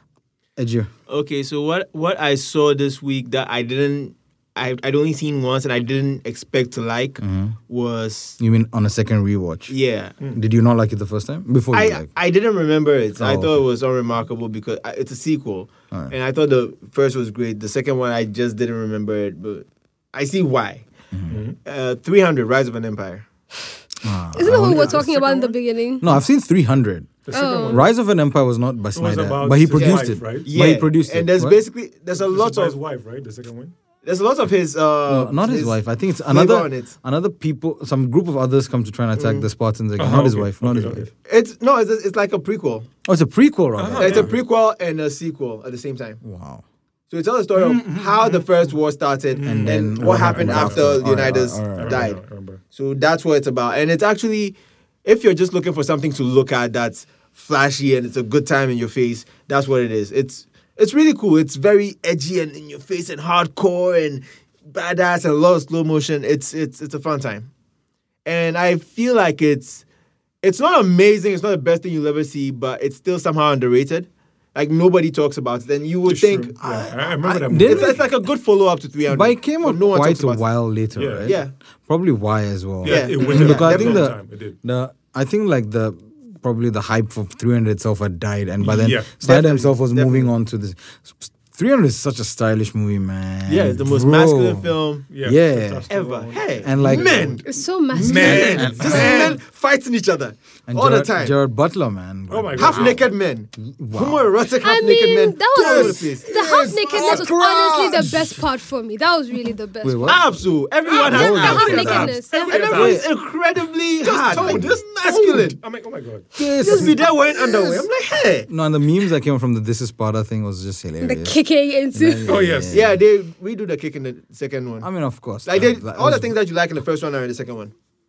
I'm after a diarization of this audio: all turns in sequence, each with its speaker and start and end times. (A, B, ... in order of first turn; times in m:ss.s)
0:00.6-0:00.9 A
0:01.1-0:08.4 B
0:07.2-0:07.6 A
0:08.4-0:09.7 A
0:09.7-0:10.2 B
0:10.4-0:12.1 A
0:11.7-0:20.9 B
0:13.2-0:13.6 A
0:21.1-0:21.4 A
0:21.3-0:21.6 C
0:21.6-0:23.3 B
0:24.0-0:25.1 A
0:24.3-0:26.0 D
0:24.5-0:25.5 C
0:26.0-0:27.1 A
0:27.3-0:27.9 C
0:27.3-0:27.8 D
0:27.7-0:31.6 A
0:29.0-0:30.5 C
0:29.7-0:32.8 B
0:32.1-0:33.7 C
0:34.0-0:36.9 B
0:35.1-0:41.1 A
0:39.2-0:39.5 B
0:40.0-0:41.1 C
0:41.3-0:42.9 B
0:43.0-0:44.3 A
0:43.8-0:44.4 C
0:44.0-0:46.2 B
0:46.2-0:46.6 A
0:47.1-0:52.2 B
0:47.5-0:48.8 C
0:49.3-0:52.6 C
0:49.4-0:52.1 A
0:52.7-1:07.5 B
1:08.2-1:09.8 B
1:10.4-1:16.9 B
1:16.0-1:18.1 C
1:16.6-1:18.2 A
1:17.5-1:20.4 B
1:19.1-1:35.9 A
1:20.9-1:21.4 C
1:21.3-1:21.5 B
1:22.8-1:24.6 C
1:22.8-1:24.1 B
1:28.6-1:29.2 C
1:29.2-1:30.3 B
1:33.5-1:35.1 B
1:35.1-1:37.4 C
1:35.9-1:41.4 B
1:36.6-1:37.4 A
1:37.5-1:39.2 D
1:38.0-1:39.4 C
1:38.6-1:39.3 A
1:40.7-1:43.0 A
1:42.3-1:43.1 C
1:42.6-1:47.3 B
1:43.6-1:44.3 A
1:44.6-1:50.2 D
1:45.6-1:48.4 A
1:49.8-1:50.4 A
1:50.1-1:55.6 B
1:50.9-1:53.0 C
1:50.9-1:52.9 D
1:51.0-1:53.1 A
1:54.0-1:56.9 C
1:54.3-1:54.8 A
1:56.4-1:57.0 A
1:56.6-1:58.5 B
1:58.5-2:01.4 A
2:01.0-2:02.4 D
2:01.9-2:03.0 A
2:02.2-2:02.9 C
2:02.7-2:04.9 B
2:04.8-2:06.4 A
2:05.5-2:07.7 B